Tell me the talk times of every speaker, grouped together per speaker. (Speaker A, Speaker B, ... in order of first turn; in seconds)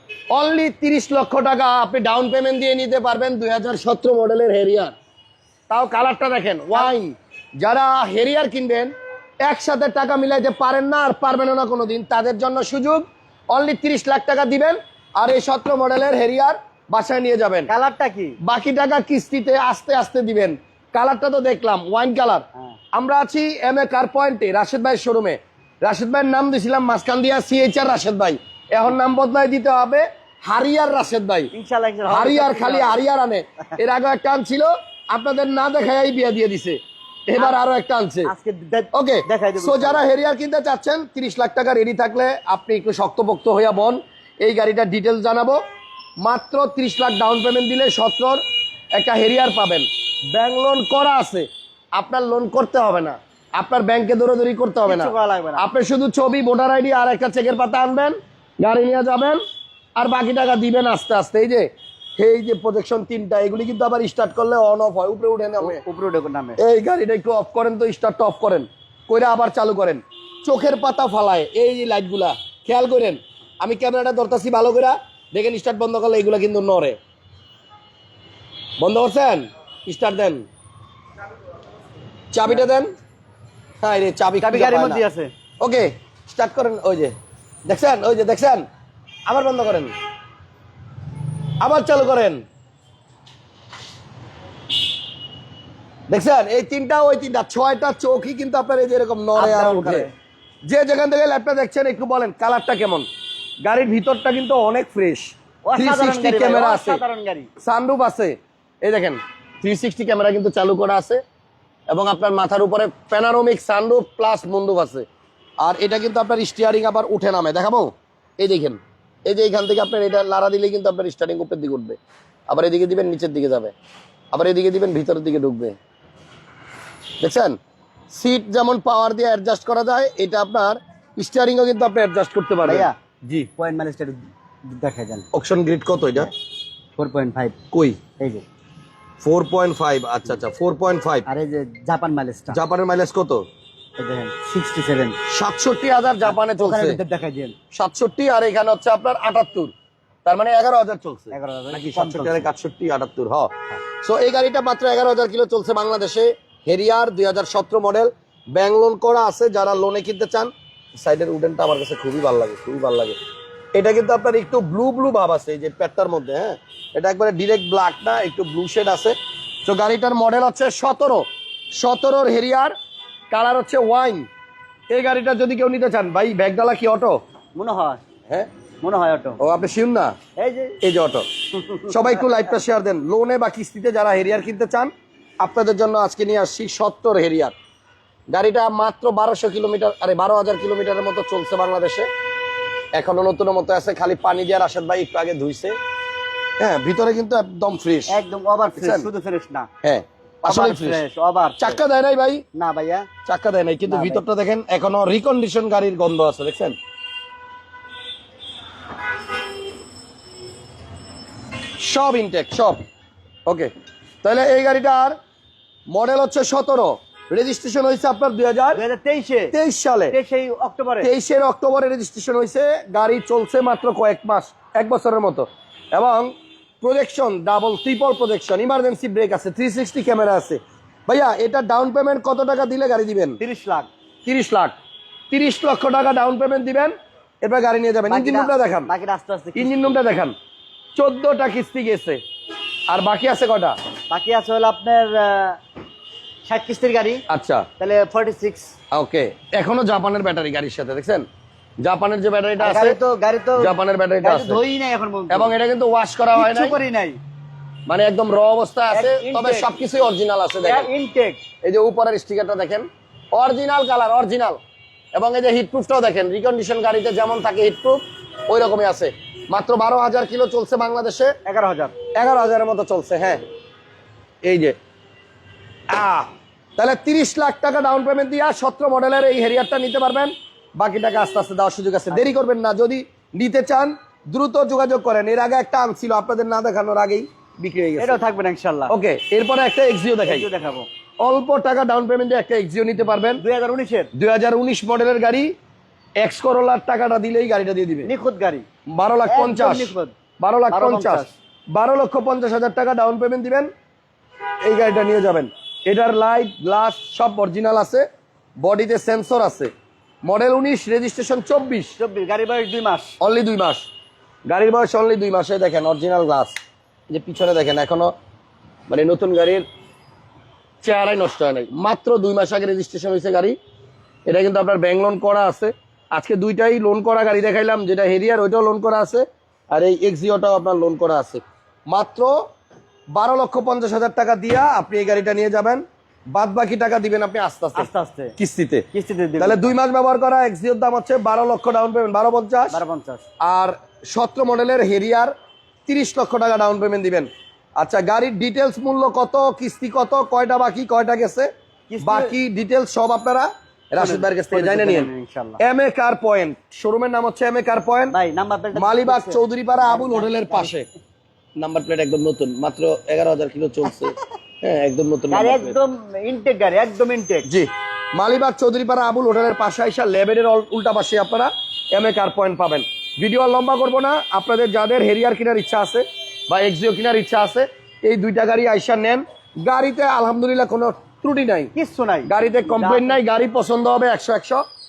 Speaker A: 0.3-4.9, 5.7-8.9, 9.4-17.7, 18.4-31.5, 32.1-38.3, 38.9-45.6, 46.2-48.4, 48.9-59.4, 60.0-65.8, 66.6-77.0, 78.8-80.4, 82.3-82.9, 83.8-85.0, 85.6-87.1, 87.7-88.6, 89.3-89.9, 91.6-92.4, 96.1-100.1, 100.6-103.1, 103.6-107.0, 107.6-111.2, 111.9-115.0, 115.6-123.7, 124.3-125.8, 127.2-127.5, 128.1-133.5, 135.3-136.3, 137.7-138.0, 139.2-141.3, 142.5-143.4, 145.3-147.0, 147.7-149.7, 150.2-163.2, 163.7-172.8, 173.3-174.3, 174.9-177.2, 179.4-180.1, 180.8-187.6, 188.3-192.1, 192.9-195.8, 196.6-198.2, 198.8-199.1, 199.8-201.0, 201.6-202.4, 203.2-206.8, 211.8-212.8, 213.5-213.7, 214.2-215.2, 215.9-218.8, 219.5-220.2, 221.0-233.4, 234.2-234.8, 235.3-238.9, 239.6-240.3, 241.0-242.2, 242.9-243.8, 247.3-247.7, 248.9-251.2, 251.8-253.0, 253.6-254.6, 255.3-256.8, 257.9-260.9, 261.6-264.6, 265.1-271.3, 272.1-273.4, 274.4-274.8, 275.9-288.2, 288.9-290.5, 291.2-293.4, 294.1-295.5, 296.2-298.1, 298.9-303.7, 304.6-308.0, 308.6-309.7, 310.2-311.9, 313.2-313.9, 314.5-316.6, 317.1-318.1, 318.9-319.6, 320.8-323.6, 324.3-332.3, 333.1-338.9, 339.4-342.8, 343.4-345.3, 345.9-351.5, 352.0-358.1, 358.7-360.9, 361.6-365.8, 367.4-381.7, 382.2-384.6
Speaker B: 17.7-18.4, 31.5-33.0, 38.2-40.0, 54.9-55.7, 65.6-66.6, 84.4-85.3, 99.3-100.1, 105.6-107.5, 132.7-133.0, 133.6-135.3, 137.0-137.6, 138.2-138.4, 141.3-142.6, 144.0-145.2, 146.2-147.6, 151.3-152.5, 177.6-178.0, 178.8-179.4, 180.4-180.8, 181.6-182.2, 198.1-199.7, 200.4-201.8, 202.5-203.1, 203.9-204.2, 218.7-219.6, 220.1-221.1, 233.4-233.9, 238.1-240.0, 244.1-245.6, 246.5-247.2, 247.8-248.7, 252.6-253.7, 254.2-255.5, 256.3-257.2, 258.9-259.8, 260.6-261.4, 271.4-271.9, 288.0-288.9, 290.2-290.9, 293.4-294.1, 298.0-298.6, 299.2-300.1, 300.7-301.3, 312.0-313.1, 337.8-338.3, 338.9-339.7, 342.7-343.2, 351.9-352.4, 354.0-355.6, 358.1-360.8, 365.3-367.5, 381.8-383.2